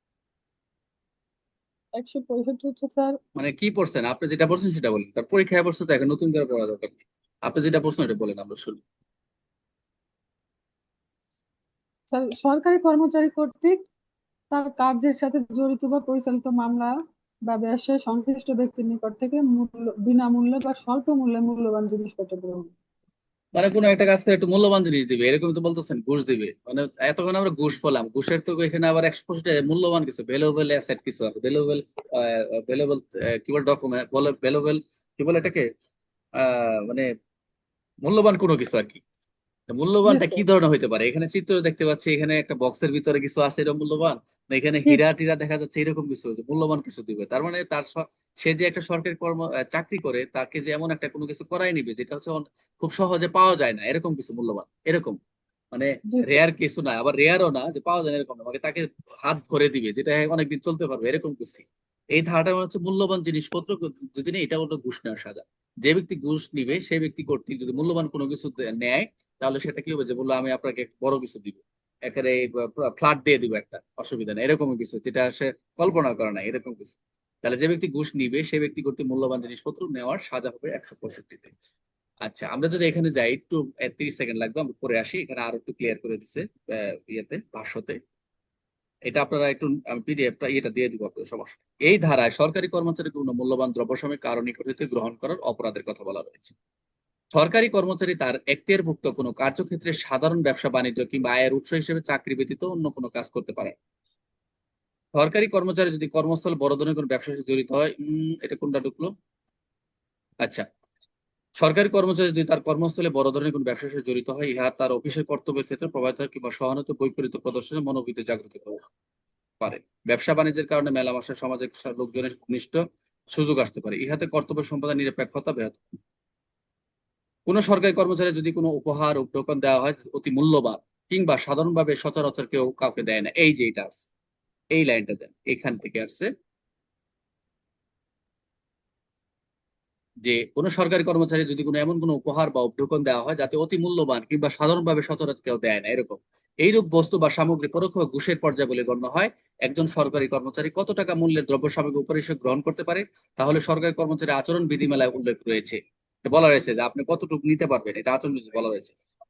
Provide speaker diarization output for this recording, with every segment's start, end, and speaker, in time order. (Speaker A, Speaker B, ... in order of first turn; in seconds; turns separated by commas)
Speaker A: 2.0-3.2, Speaker B: 3.4-8.8, Speaker A: 12.1-13.8, Speaker A: 14.5-16.9, Speaker A: 17.5-22.7, Speaker B: 23.5-35.7, Speaker B: 36.4-37.1, Speaker B: 38.0-39.0, Speaker B: 39.7-55.2, Speaker A: 40.1-40.5, Speaker B: 55.7-81.5, Speaker A: 56.1-56.4, Speaker B: 82.2-88.0, Speaker B: 89.1-96.5, Speaker B: 97.3-103.8, Speaker B: 105.2-109.1, Speaker B: 111.6-118.8, Speaker B: 119.6-122.8, Speaker B: 123.3-126.0, Speaker B: 127.5-134.1, Speaker B: 134.7-136.3, Speaker B: 140.2-158.9